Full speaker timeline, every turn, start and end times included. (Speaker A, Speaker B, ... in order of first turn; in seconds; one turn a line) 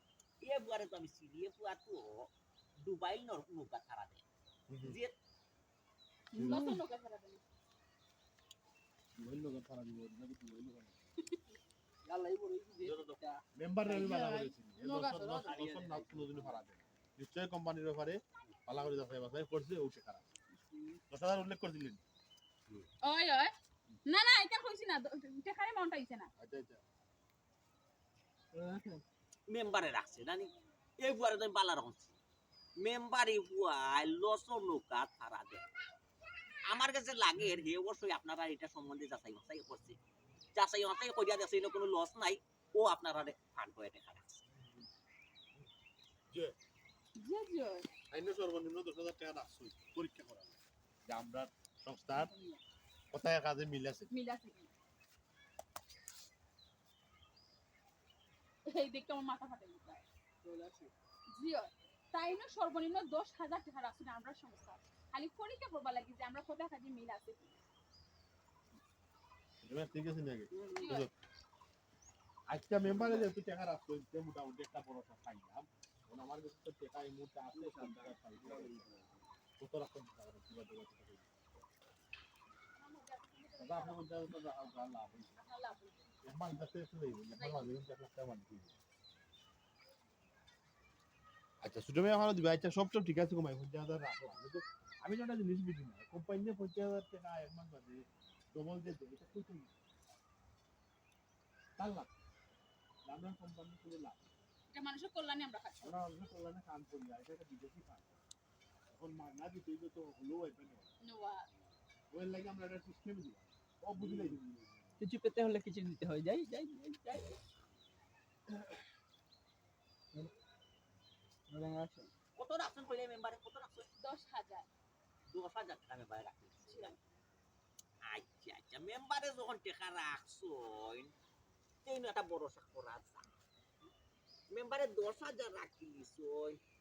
Speaker A: 0.4-2.3
Speaker A: 2.8-4.2
Speaker B: 4.7-5.0
Speaker A: 4.8-5.2
Speaker C: 6.3-7.4
Speaker B: 6.4-6.7
Speaker D: 6.4-6.8
Speaker B: 9.2-11.1
Speaker D: 12.1-16.6
Speaker B: 12.8-20.2
Speaker D: 20.5-21.0
Speaker B: 21.1-22.0
Speaker C: 23.0-23.5
Speaker C: 24.1-26.3
Speaker B: 26.4-26.8
Speaker D: 28.5-29.0
Speaker A: 29.5-32.2
Speaker A: 32.8-35.6
Speaker A: 36.6-40.0
Speaker A: 40.6-44.4
Speaker B: 44.5-44.9
Speaker C: 47.2-47.9
Speaker B: 48.1-52.3
Speaker C: 52.1-52.6
Speaker B: 53.1-54.1
Speaker C: 54.1-54.7
Speaker C: 58.7-60.0
Speaker D: 60.4-60.9
Speaker C: 61.3-67.6
Speaker B: 69.6-71.1
Speaker D: 70.5-70.9
Speaker C: 70.8-71.1
Speaker B: 72.5-78.9
Speaker D: 72.8-73.3
Speaker D: 77.5-79.3
Speaker B: 79.6-81.3
Speaker C: 82.7-84.1
Speaker B: 83.6-85.4
Speaker C: 85.3-86.1
Speaker B: 86.2-88.8
Speaker C: 87.3-87.8
Speaker B: 91.6-99.7
Speaker B: 101.8-102.1
Speaker B: 103.1-104.4
Speaker C: 104.7-105.9
Speaker B: 105.8-108.2
Speaker B: 108.9-110.9
Speaker C: 111.0-111.5
Speaker B: 112.1-114.9
Speaker D: 114.0-114.4
Speaker D: 115.0-117.4
Speaker D: 121.5-122.1
Speaker A: 122.4-123.9
Speaker C: 124.0-124.7
Speaker A: 125.3-127.0
Speaker C: 126.7-127.0
Speaker A: 128.0-131.1
Speaker A: 131.8-133.3
Speaker A: 134.5-136.6